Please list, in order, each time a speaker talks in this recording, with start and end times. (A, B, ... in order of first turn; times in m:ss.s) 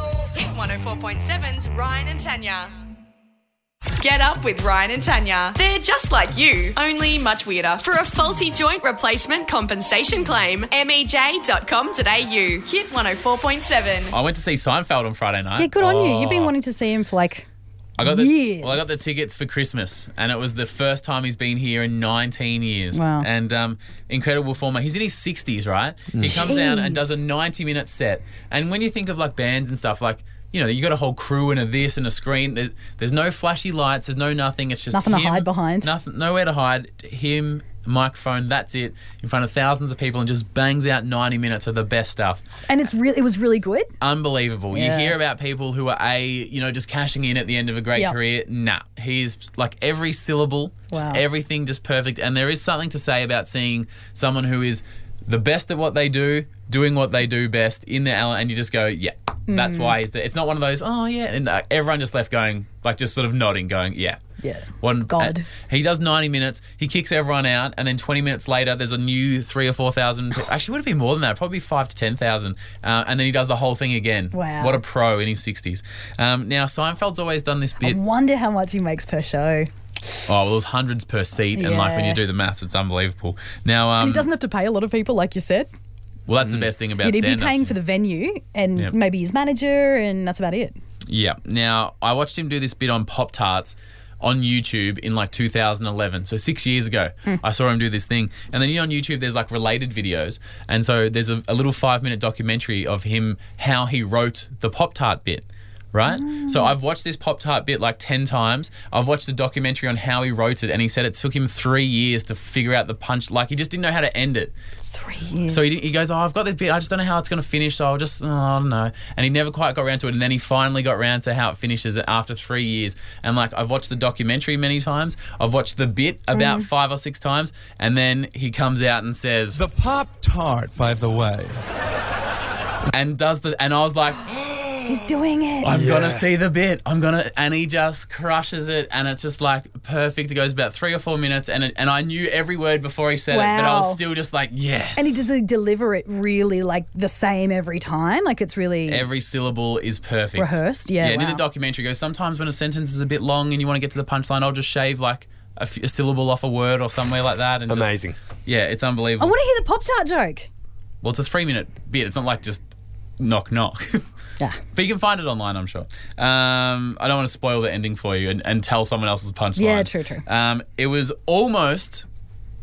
0:00.3-0:02.7 A
0:04.0-0:14.1 A
0:14.1-0:16.5 B
0:15.6-0:17.5 C
0:18.0-0:42.4 B
0:18.0-0:19.0 C
0:22.9-0:23.3 C
0:26.1-0:26.4 D
0:26.2-0:27.2 C
0:34.9-0:35.9 C
0:42.7-0:43.9 C
0:44.0-1:04.2 B
0:44.7-0:45.1 C
0:50.9-0:51.2 C
0:59.5-1:00.0 C
1:04.4-1:05.5 C
1:04.8-1:18.0 B
1:14.3-1:14.8 C
1:17.8-1:19.7 C
1:20.3-1:24.3 B
1:21.5-1:22.2 C
1:24.0-1:25.7 C
1:26.3-1:27.8 B
1:27.0-1:30.8 C
1:31.0-1:54.5 B
1:46.1-1:46.7 C
1:54.9-1:55.6 C
1:55.5-2:09.6 B
2:06.3-2:06.7 C
2:09.5-2:11.6 D
2:12.9-2:14.8 B
2:14.8-2:15.9 C
2:15.6-2:25.3 B
2:15.6-2:16.3 D
2:23.3-2:24.0 C
2:25.0-2:29.0 C
2:28.9-2:39.4 B
2:30.4-2:31.4 C
2:37.7-2:38.2 D
2:39.2-2:40.5 C
2:41.0-2:42.6 B
2:43.2-2:44.0 B
2:44.7-2:52.0 B
2:49.6-2:50.2 C